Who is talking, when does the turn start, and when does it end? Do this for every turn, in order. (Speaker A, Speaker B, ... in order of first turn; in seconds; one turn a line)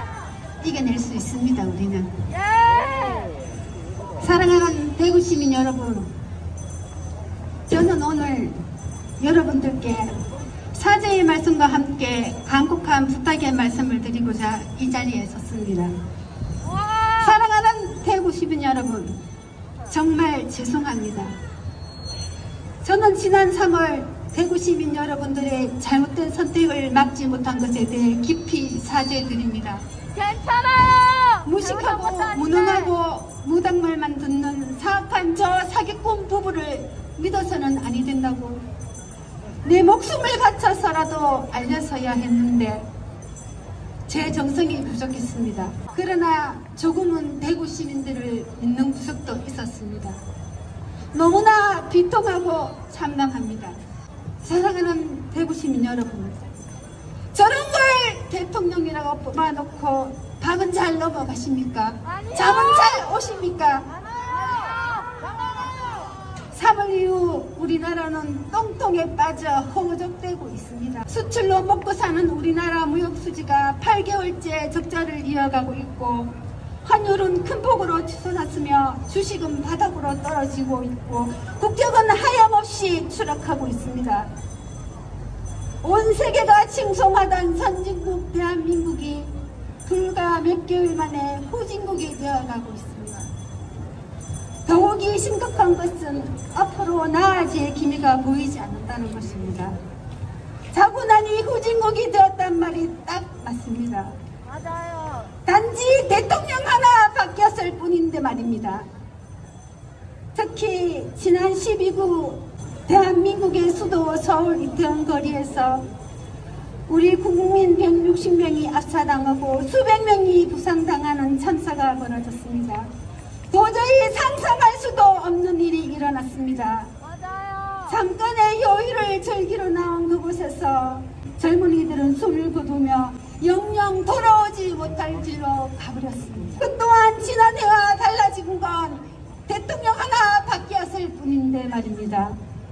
Speaker A: 0.6-2.2
Speaker B: 2.6-3.3
Speaker A: 4.2-6.1
Speaker A: 7.7-8.6
Speaker A: 9.2-10.2
Speaker A: 10.7-15.9
Speaker A: 17.0-19.2
Speaker A: 19.9-21.4
Speaker A: 22.8-29.9
Speaker B: 30.2-31.4
Speaker A: 31.4-38.6
Speaker A: 39.6-42.9
Speaker A: 44.1-50.2
Speaker A: 51.1-53.8
Speaker A: 54.4-56.5
Speaker A: 57.3-63.9
Speaker B: 64.5-64.9
Speaker A: 66.5-84.3
Speaker A: 85.8-93.3
Speaker A: 94.7-99.8
Speaker A: 100.7-104.2
Speaker B: 104.6-105.2
Speaker A: 105.4-108.9
Speaker A: 110.3-115.8
Speaker A: 116.9-122.9
Speaker A: 123.5-126.9
Speaker B: 127.2-127.8
Speaker A: 127.8-142.4